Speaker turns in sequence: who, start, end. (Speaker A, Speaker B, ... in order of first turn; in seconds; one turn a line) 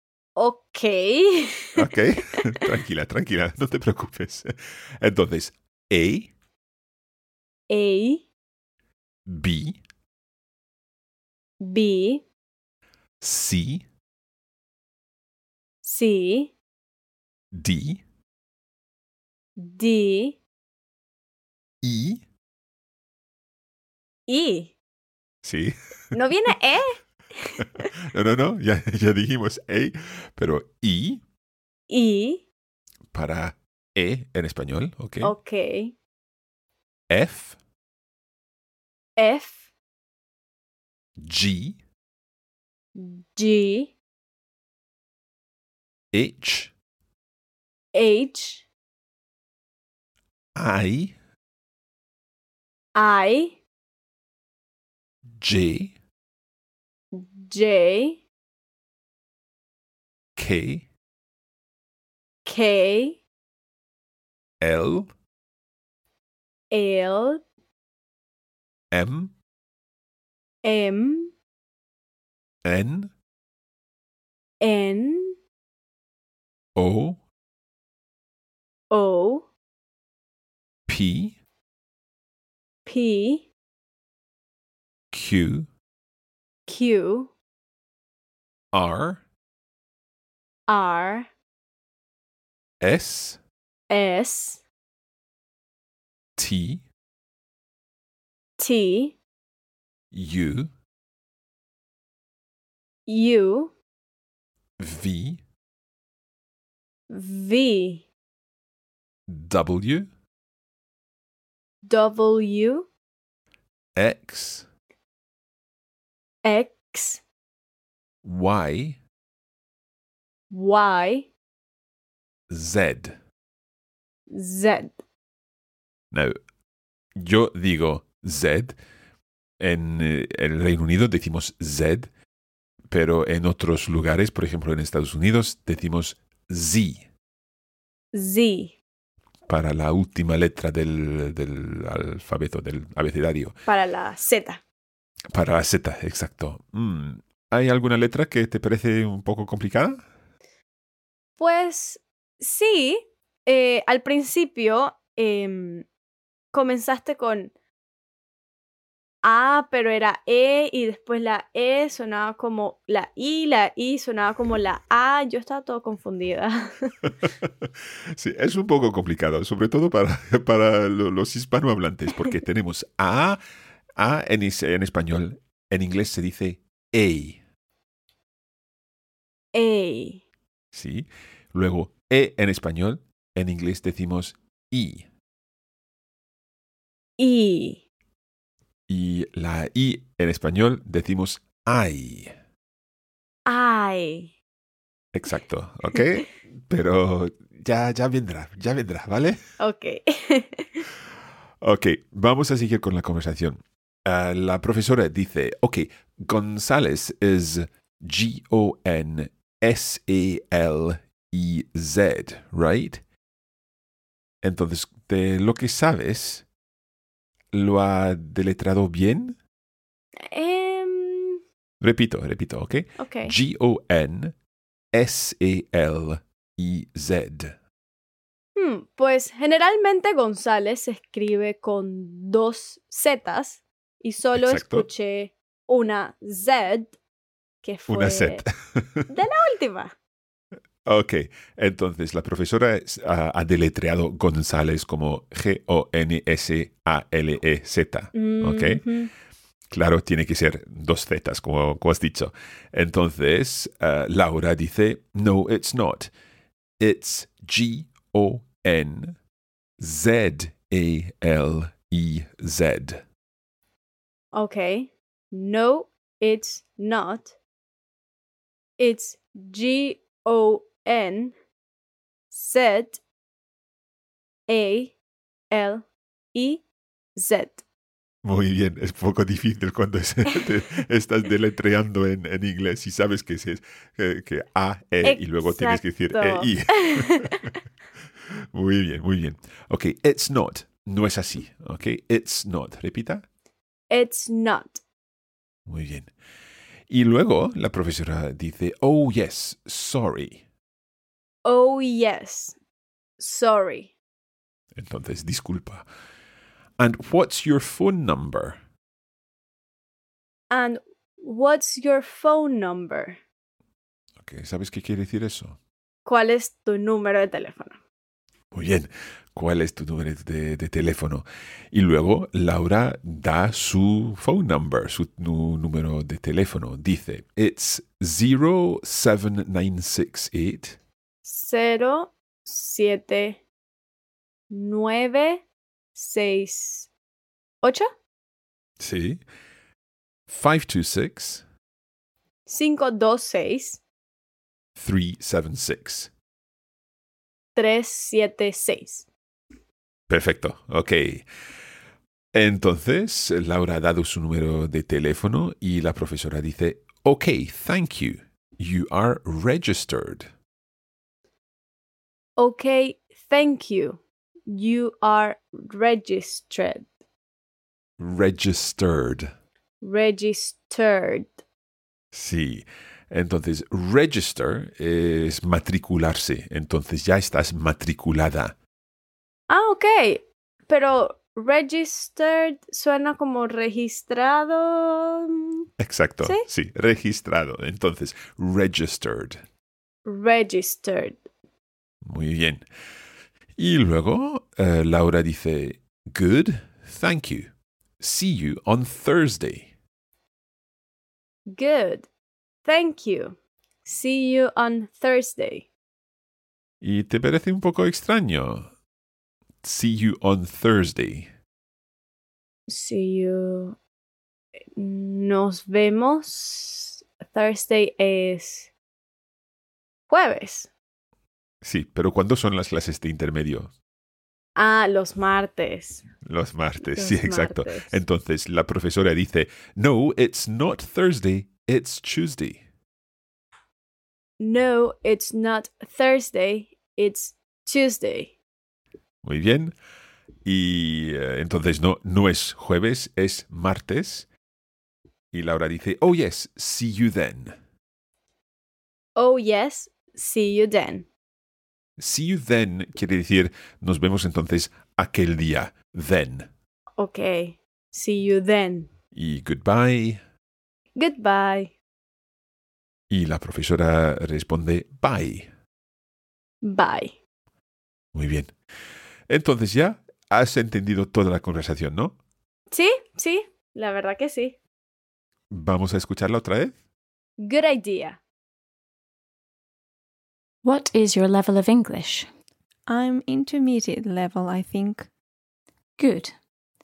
Speaker A: 0.3-2.6
Speaker B: 1.8-6.3
Speaker A: 7.7-8.2
Speaker B: 9.2-9.8
Speaker A: 11.6-12.2
Speaker B: 13.2-13.8
Speaker A: 15.8-16.5
Speaker B: 17.5-18.0
Speaker A: 19.6-20.4
Speaker B: 21.8-22.2
Speaker A: 24.3-24.7
Speaker B: 25.4-26.1
Speaker A: 26.1-27.9
Speaker B: 27.6-31.2
Speaker A: 31.9-32.4
Speaker B: 33.1-35.3
Speaker A: 35.2-35.9
Speaker B: 37.1-37.6
Speaker A: 39.2-39.7
Speaker B: 41.2-41.8
Speaker A: 43.0-43.9
Speaker B: 46.1-46.7
Speaker A: 47.9-48.6
Speaker B: 50.5-51.1
Speaker A: 52.9-53.6
Speaker B: 55.4-55.9
Speaker A: 57.1-58.2
Speaker B: 60.4-60.9
Speaker A: 62.5-63.2
Speaker B: 64.6-65.1
Speaker A: 66.7-67.4
Speaker B: 68.9-69.3
Speaker A: 70.6-71.3
Speaker B: 72.6-73.1
Speaker A: 74.6-75.4
Speaker B: 76.8-77.2
Speaker A: 78.9-79.5
Speaker B: 80.9-81.3
Speaker A: 82.8-83.5
Speaker B: 85.1-85.7
Speaker A: 86.7-87.3
Speaker B: 88.7-89.2
Speaker A: 90.7-91.3
Speaker B: 92.8-93.4
Speaker A: 93.9-94.6
Speaker B: 96.4-96.8
Speaker A: 98.6-99.2
Speaker B: 100.1-100.7
Speaker A: 103.1-103.7
Speaker B: 104.8-105.4
Speaker A: 107.1-108.1
Speaker B: 109.3-110.1
Speaker A: 111.8-112.9
Speaker B: 114.0-114.7
Speaker A: 116.4-117.2
Speaker B: 118.2-119.0
Speaker A: 120.5-121.3
Speaker B: 122.5-123.2
Speaker A: 124.3-125.0
Speaker B: 127.2-128.8
Speaker B: 129.6-132.1
Speaker B: 132.9-137.0
Speaker A: 138.1-138.7
Speaker B: 139.5-143.6
Speaker A: 143.7-144.6
Speaker B: 145.3-150.0
Speaker A: 151.4-155.9
Speaker A: 156.5-157.5
Speaker A: 159.2-167.0
Speaker B: 167.2-173.4
Speaker B: 174.0-177.4
Speaker A: 179.5-180.2
Speaker B: 180.7-185.1
Speaker A: 187.2-187.8
Speaker B: 188.9-192.3
Speaker A: 193.4-194.3
Speaker B: 195.1-199.4
Speaker A: 199.6-200.8
Speaker B: 201.6-213.0
Speaker B: 214.4-216.4
Speaker B: 217.5-219.3
Speaker A: 220.2-221.4
Speaker B: 221.8-224.3
Speaker A: 223.0-223.3
Speaker B: 224.9-227.6
Speaker A: 228.6-237.0
Speaker B: 234.3-234.8
Speaker A: 237.6-238.4
Speaker B: 237.9-239.1
Speaker A: 239.1-239.9
Speaker B: 240.8-248.8
Speaker A: 248.1-249.1
Speaker B: 249.7-256.1
Speaker B: 256.8-259.1
Speaker B: 259.8-263.0
Speaker A: 264.3-267.3
Speaker A: 268.8-271.3
Speaker A: 272.3-273.0
Speaker A: 274.5-274.9
Speaker A: 275.5-276.6
Speaker A: 277.2-277.6
Speaker B: 278.2-287.3
Speaker A: 285.0-287.5
Speaker B: 288.3-293.2
Speaker A: 293.9-294.8
Speaker B: 295.6-296.1
Speaker B: 296.9-300.4
Speaker A: 301.4-302.6
Speaker A: 303.2-303.9
Speaker B: 304.7-305.8
Speaker B: 306.8-308.6
Speaker A: 310.5-313.2
Speaker B: 314.2-315.6
Speaker A: 316.1-317.8
Speaker B: 318.5-330.8
Speaker A: 331.2-333.4
Speaker A: 334.5-335.4
Speaker A: 335.9-336.9
Speaker A: 337.6-337.9
Speaker B: 338.8-339.2
Speaker B: 340.3-341.4
Speaker A: 342.4-343.8
Speaker B: 344.8-346.1
Speaker A: 347.6-349.1
Speaker B: 350.1-351.2
Speaker B: 352.3-360.3
Speaker A: 362.4-366.9
Speaker B: 368.0-369.3
Speaker A: 369.8-371.4
Speaker B: 372.1-378.5
Speaker A: 379.5-385.7
Speaker B: 385.8-389.4
Speaker A: 386.2-386.5
Speaker A: 390.0-391.2
Speaker B: 392.0-392.6
Speaker B: 393.6-399.7
Speaker A: 401.5-402.1
Speaker A: 402.6-405.7
Speaker B: 406.8-408.7
Speaker B: 409.6-411.3
Speaker A: 412.7-413.8
Speaker A: 414.8-418.7
Speaker A: 420.1-420.7
Speaker B: 421.6-423.7
Speaker A: 424.6-426.0
Speaker B: 426.2-432.6
Speaker A: 426.9-428.0
Speaker A: 434.4-438.3
Speaker B: 439.2-439.7
Speaker B: 440.4-444.3
Speaker B: 445.3-447.5
Speaker A: 449.2-451.1
Speaker B: 452.0-456.5
Speaker A: 457.0-458.9
Speaker B: 459.1-460.2
Speaker A: 460.9-461.7
Speaker B: 463.1-465.5
Speaker A: 466.6-467.2
Speaker B: 468.1-468.5
Speaker B: 469.3-472.2
Speaker A: 472.7-474.6
Speaker B: 475.5-476.8
Speaker A: 477.4-478.2
Speaker C: 480.6-482.3
Speaker D: 482.9-485.1
Speaker C: 486.0-486.3